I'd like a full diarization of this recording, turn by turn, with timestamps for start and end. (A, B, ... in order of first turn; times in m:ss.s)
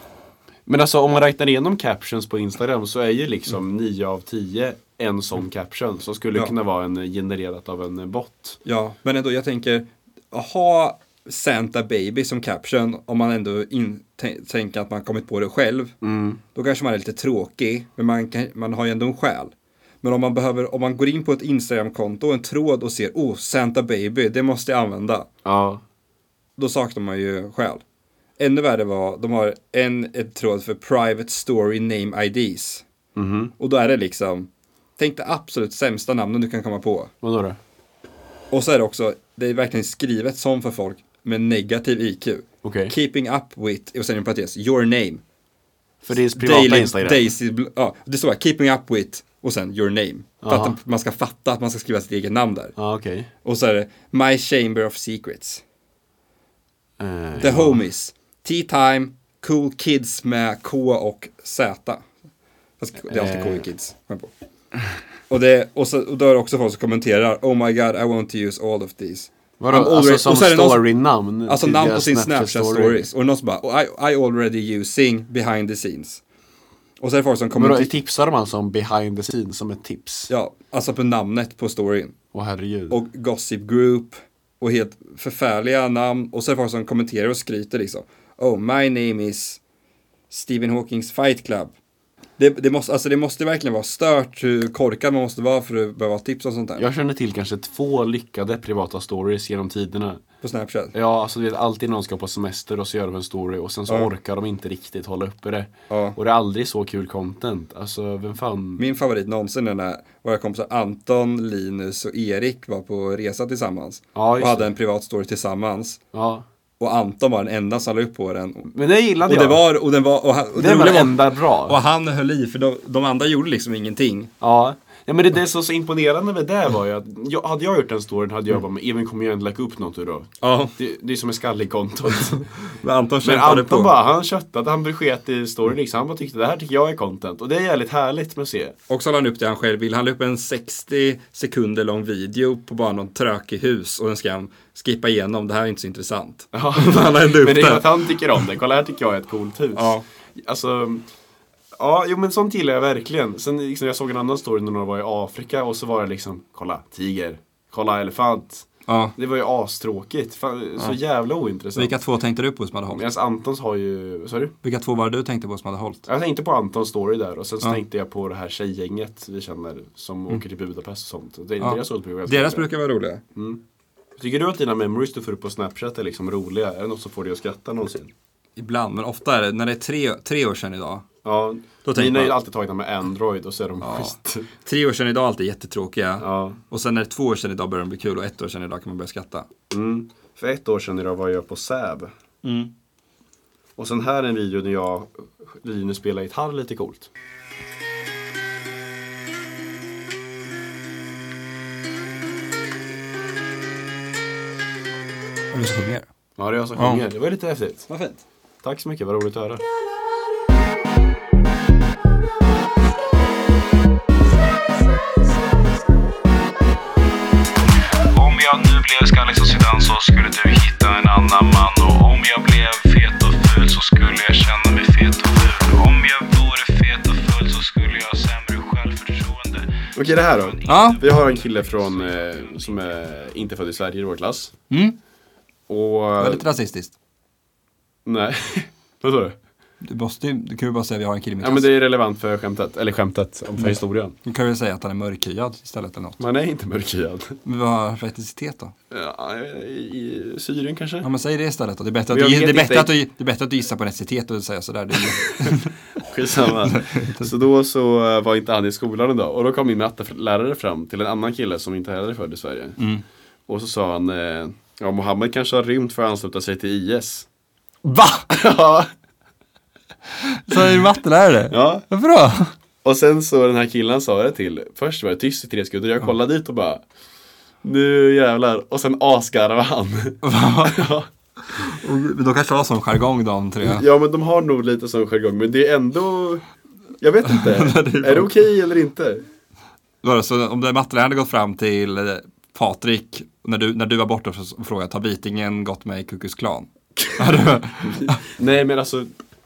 0:00.6-0:08.6 A
0:08.6-0:16.0 B
0:16.0-0:16.4 A
0:16.5-0:25.3 B
0:25.4-0:25.8 A
0:26.6-0:27.8 B
0:28.4-0:32.8 B
0:33.1-0:33.5 A
0:33.6-0:37.1 B
0:37.2-0:37.6 A
0:38.5-0:45.2 B
0:42.6-0:42.9 A
0:46.0-0:47.3 A
0:46.1-0:52.7 B
0:50.4-0:50.8 A
0:52.8-0:53.3 A
0:53.4-0:55.6 B
0:57.0-0:57.8 A
0:57.4-1:02.0 B
1:02.8-1:04.3 B
1:03.1-1:03.7 A
1:05.3-1:10.8 B
1:09.6-1:13.0 A
1:11.5-1:16.2 B
1:17.0-1:17.9 B
1:17.5-1:20.3 A
1:20.3-1:22.2 B
1:22.3-1:23.0 A
1:22.9-1:29.6 B
1:30.3-1:31.7 B
1:32.4-1:36.8 B
1:36.8-1:40.2 A
1:40.4-1:40.9 B
1:40.9-1:48.8 A
1:45.9-1:46.2 B
1:48.8-1:56.0 B
1:54.1-1:54.7 A
1:56.1-1:56.4 A
1:56.8-1:58.7 B
1:58.7-1:59.6 A
1:59.2-2:04.3 B
2:00.5-2:01.8 A
2:04.4-2:12.5 A
2:10.4-2:10.7 B
2:12.7-2:13.9 B
2:13.2-2:18.8 A
2:18.9-2:28.4 B
2:26.5-2:31.1 A
2:29.7-2:30.0 B
2:31.7-2:41.9 A
2:38.9-2:39.1 B
2:41.7-2:43.0 B
2:42.9-2:44.5 A
2:44.6-2:46.0 B
2:46.1-2:52.7 A
2:51.6-2:53.2 B
2:53.3-2:53.6 A
2:54.2-2:58.1 A
2:58.6-3:01.0 B
3:01.2-3:04.5 A
3:01.8-3:02.4 B
3:03.8-3:09.5 B
3:06.2-3:06.6 A
3:09.7-3:12.1 A
3:12.4-3:12.7 B
3:13.8-3:17.1 A
3:25.5-3:26.1 B
3:26.4-3:27.9 A
3:26.8-3:27.0 B
3:27.9-3:28.2 B
3:28.6-3:29.6 A
3:38.1-3:49.7 C
3:49.9-3:54.5 A
3:50.4-3:51.9 C
3:50.6-3:51.0 B
3:54.7-3:55.0 B
3:55.7-3:56.4 A
3:56.2-3:56.9 B
3:58.0-3:59.4 A
3:59.8-4:01.7 B
4:01.4-4:04.1 A
4:03.6-4:06.2 B
4:06.2-4:07.4 A
4:07.4-4:08.7 B
4:08.9-4:11.1 A
4:11.0-4:15.7 B
4:12.1-4:12.9 A
4:15.4-4:22.8 A
4:16.6-4:17.3 B
4:22.8-4:23.0 B
4:23.5-4:27.3 A
4:27.8-4:28.3 B
4:28.3-4:28.9 A
4:30.2-4:32.5 B
4:31.5-4:31.8 A
4:32.8-4:36.8 A
4:37.6-4:41.1 A
4:40.2-4:40.9 B
4:41.5-4:43.8 B
4:43.6-4:46.4 A
4:47.0-4:49.2 A
4:47.2-4:48.4 B
4:50.0-4:58.2 B
4:57.0-4:59.1 A